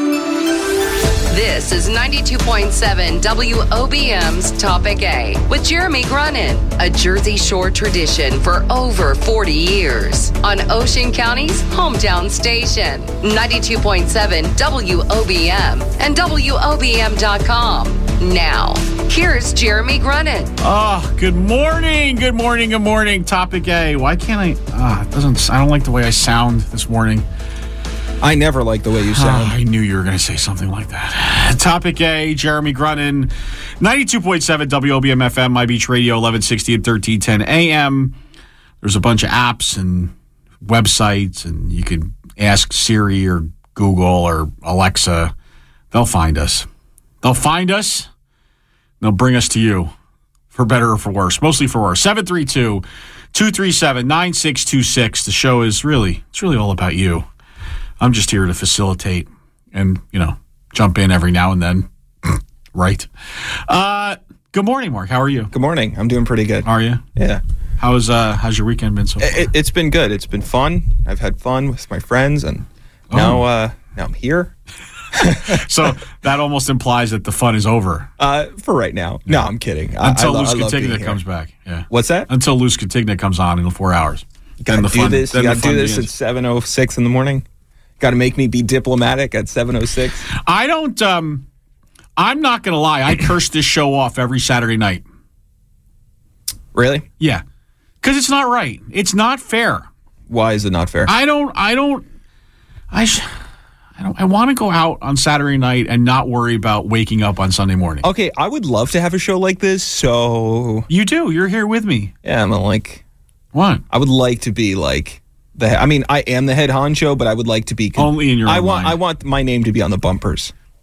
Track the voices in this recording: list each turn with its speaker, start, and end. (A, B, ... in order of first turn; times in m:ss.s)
0:01.3-0:20.5 A
0:20.6-0:27.3 B
0:28.2-0:29.6 C
0:29.1-0:38.2 B
0:38.8-0:45.3 B
0:45.9-0:46.7 B
0:47.2-0:48.1 B
0:49.0-0:49.9 B
0:50.5-0:57.3 B
0:58.0-1:03.1 B
1:03.7-1:05.5 B
1:05.5-1:07.4 C
1:06.7-1:07.0 B
1:07.8-1:09.4 B
1:09.2-1:14.5 C
1:13.1-1:13.4 B
1:15.2-1:15.9 C
1:15.5-1:18.1 B
1:18.2-1:21.2 C
1:20.0-1:26.1 B
1:21.9-1:22.3 C
1:24.6-1:27.4 C
1:28.0-1:30.2 C
1:30.3-1:31.4 B
1:32.2-1:35.0 B
1:36.7-1:37.1 C
1:38.0-1:39.9 B
1:40.3-1:41.1 C
1:41.0-1:42.0 B
1:42.9-1:43.3 B
1:44.0-1:48.0 B
1:48.0-1:50.9 C
1:50.9-1:52.1 B
1:52.2-1:53.0 C
1:53.5-1:53.8 B
1:53.9-2:00.5 C
1:58.0-1:59.0 B